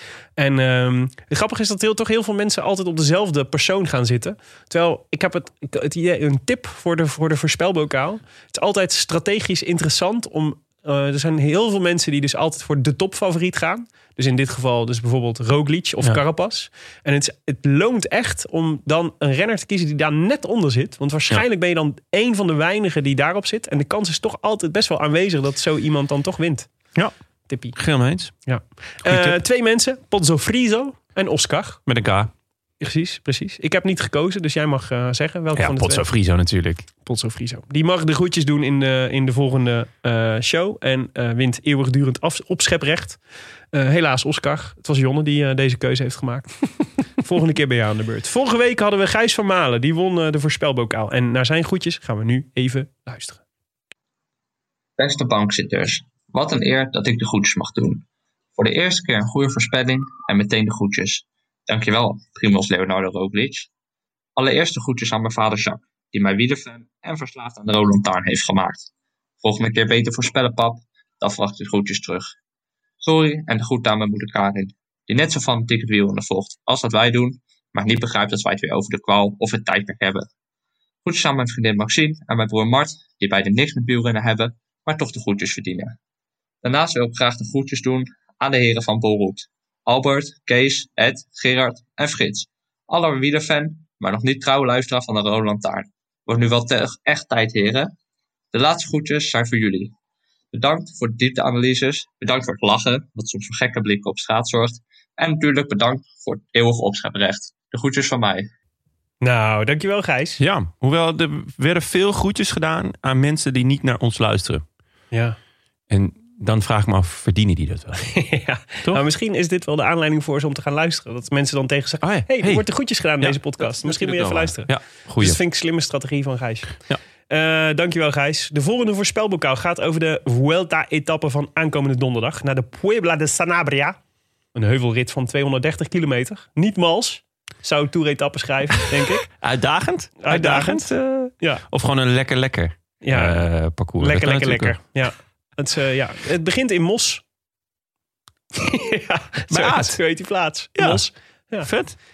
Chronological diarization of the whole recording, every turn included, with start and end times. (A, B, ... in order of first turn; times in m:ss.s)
0:00.4-0:26.7 A
0:27.5-0:27.8 A
0:27.7-0:28.3 B
0:28.5-0:31.8 A
0:29.0-0:29.4 B
0:31.9-0:32.3 B
0:32.8-0:36.0 A
0:35.6-0:36.9 B
0:37.0-0:43.2 A
0:43.7-0:46.6 A
0:47.2-0:53.4 A
0:55.0-0:58.0 C
0:58.6-1:03.7 C
1:04.4-1:08.9 C
1:09.4-1:12.3 C
1:13.0-1:20.3 C
1:21.0-1:26.0 C
1:26.6-1:37.9 C
1:38.5-1:39.9 C
1:40.5-1:48.5 C
1:49.2-1:50.4 A
1:50.4-1:54.6 B
1:55.1-1:55.4 A
1:55.9-1:58.0 B
1:58.0-2:06.8 A
2:02.0-2:02.6 B
2:03.2-2:05.4 B
2:07.3-2:14.0 A
2:14.5-2:19.2 A
2:19.0-2:24.8 B
2:20.2-2:21.6 A
2:23.0-2:23.5 A
2:24.0-2:27.2 A
2:28.5-2:31.7 A
2:29.5-2:30.0 B
2:30.8-2:31.0 B
2:31.6-2:32.0 B